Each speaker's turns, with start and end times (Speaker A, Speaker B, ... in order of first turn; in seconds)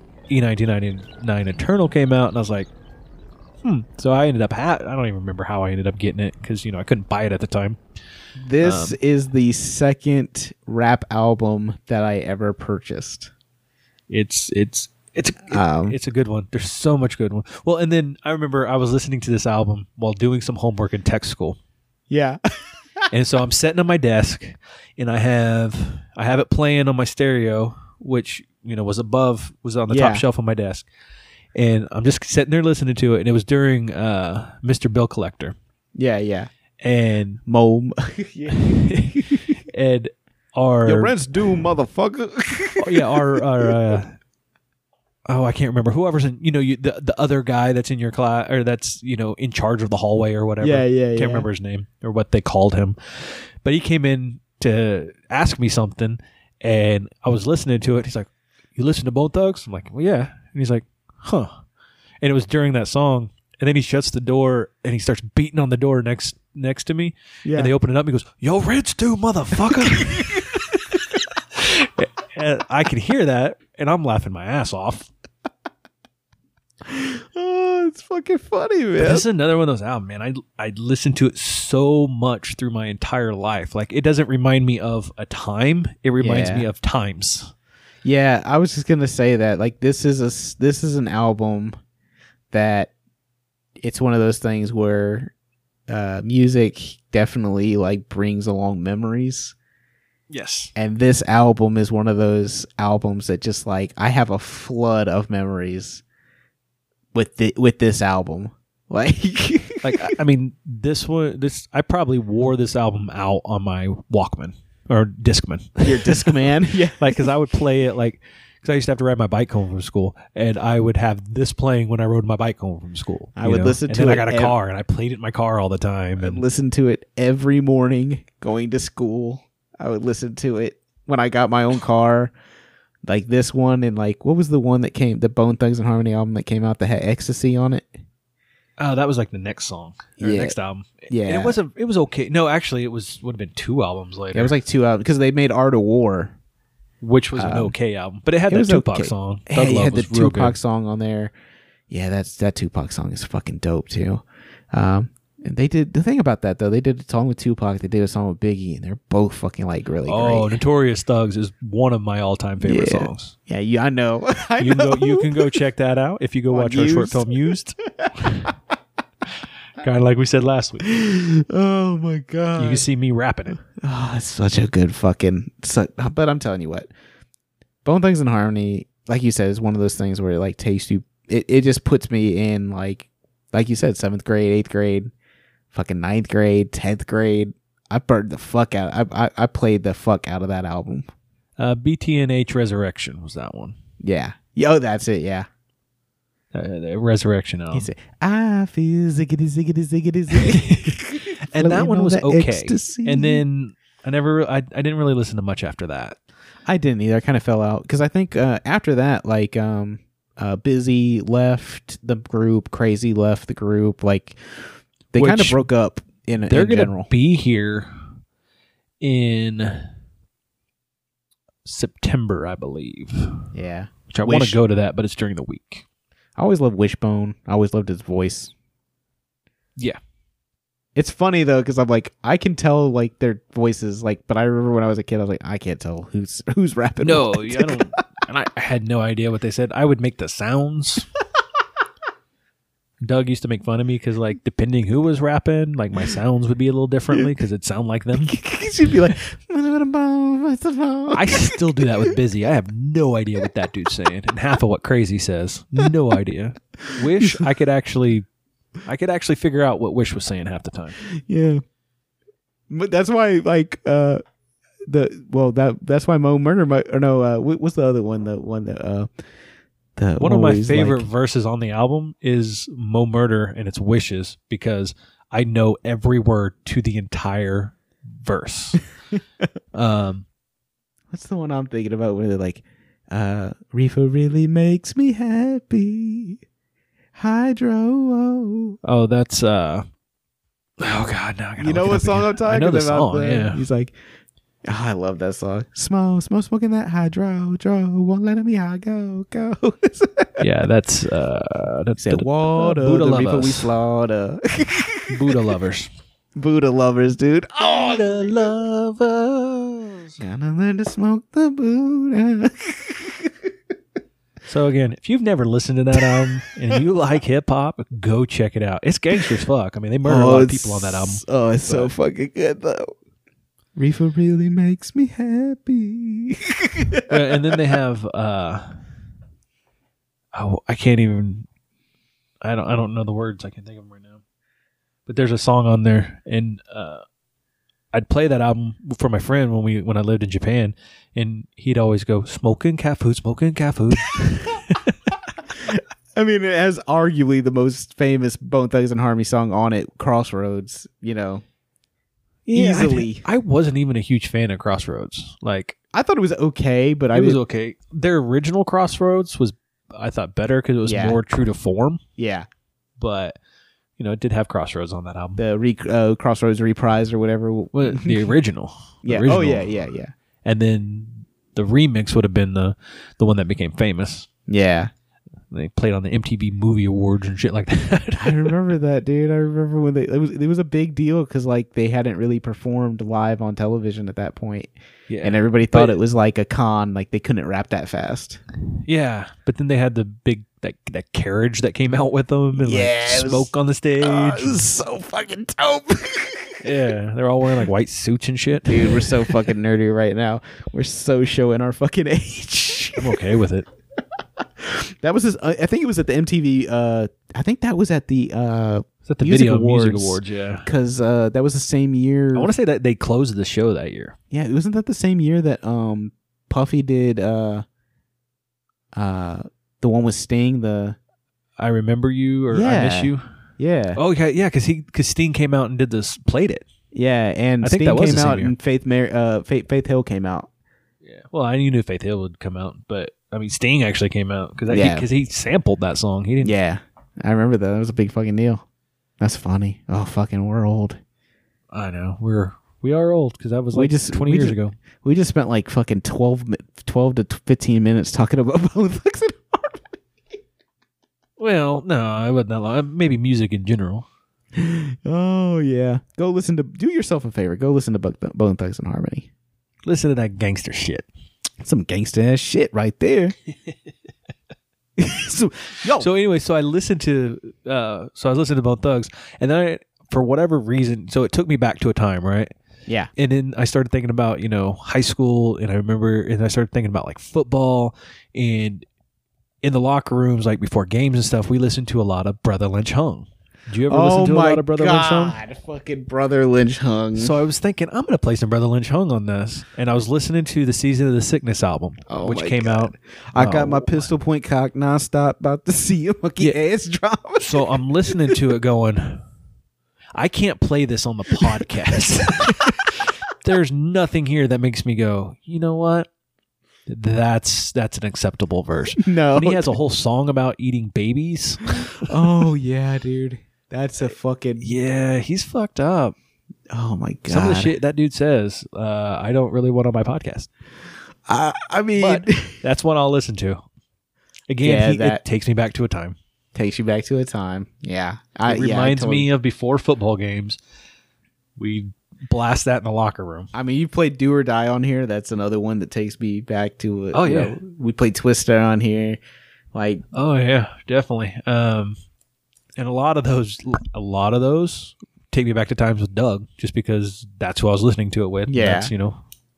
Speaker A: 0.3-2.7, 3.6-7.8, 8.6-9.0, 14.1-21.6, 23.1-30.9, 31.6-35.6, 36.8-37.4, 38.6-41.2, 42.8-44.2, 45.3-61.6, 62.2-75.1, 79.0-87.5, 100.3-100.7, 109.8-116.4, 117.0-126.4, 138.8-144.6, 147.0-150.6, 160.1-163.3, 164.6-168.5, 169.8-170.9, 172.6-173.6, 191.6-193.8, 196.5-197.9, 200.3-206.2, 215.2-215.7, 216.5-217.9, 219.0-219.9, 221.7-223.4, 224.1-225.8, 237.0-241.1, 243.0-248.3, 251.1-258.3, 258.9-261.0, 270.2-278.8, 279.7-280.3, 288.8-289.9, 290.8-293.6, 300.4-303.7, 305.1-305.9, 307.6-310.2, 314.4-321.9, 327.1-328.8, 330.3-331.5, 332.4-334.2, 335.1-337.0, 337.9-344.9, 352.5-355.8, 357.1-362.0, 363.0-363.4, 364.0-365.4, 367.7-369.8, 370.4-374.3, 375.5-378.6, 385.1-386.0, 388.9-394.6, 396.6-399.4, 403.0-403.7, 409.1-410.7, 412.3-414.2, 421.6-423.2, 424.0-426.7, 427.6-428.6, 431.0-436.6, 441.7-444.8, 451.4-454.1, 459.9-461.1, 466.0-472.5, 473.2-478.9, 479.6-485.4, 487.1-494.1, 497.4-499.2, 500.1-506.1, 506.9-512.1, 514.6-516.2, 517.3-520.5, 522.0-523.6, 524.5-526.2, 528.5-530.6, 531.6-533.5, 537.1-537.6, 540.1-542.0, 542.8-549.2
Speaker B: 8.4-13.3, 15.5-16.0, 22.1-22.4, 29.9-30.2, 36.0-36.5, 37.5-39.4, 40.9-44.0, 50.6-51.5, 67.5-67.7, 70.0-70.4, 76.8-79.3, 86.2-86.7, 88.0-91.8, 92.5-92.9, 93.8-95.3, 95.9-99.5, 100.8-106.0, 107.1-110.1, 115.8-117.3, 123.4-124.6, 126.2-132.3, 133.1-137.9, 140.2-140.6, 141.1-141.6, 144.3-146.4, 147.4-147.7, 148.5-151.3, 151.9-160.6, 162.6-165.6, 166.5-168.5, 170.8-172.9, 173.6-176.9, 177.8-185.1, 185.7-191.1, 194.0-195.5, 197.7-203.4, 206.7-217.1, 223.5-224.6, 226.4-228.5, 230.9-238.0, 248.2-251.6, 261.2-261.6, 262.7-264.2, 264.9-269.1, 270.0-271.1, 281.1-286.4, 287.2-288.8, 291.6-294.0, 294.7-300.4, 302.0-305.4, 306.4-308.6, 310.2-313.4, 316.0-316.8, 320.0-322.9, 323.8-327.6, 345.5-351.4, 352.5-353.2, 355.9-357.4, 360.9-361.2, 362.2-362.5, 365.4-368.3, 369.1-370.1, 374.5-374.9, 378.2-388.4, 392.6-396.6, 398.6-403.2, 404.6-412.5, 414.3-417.6, 418.9-421.0, 422.5-424.0, 426.9-430.5, 434.7-435.1, 436.4-438.6, 439.2-441.0, 443.7-450.0, 454.6-459.3, 461.6-463.4, 465.0-466.1, 483.9-487.4, 492.1-498.4, 502.5-502.7, 509.0-509.8, 512.0-514.7, 516.7-517.7, 521.3-522.6, 524.6-525.2, 526.5-529.3, 533.5-539.2, 539.7-540.0, 548.5-548.9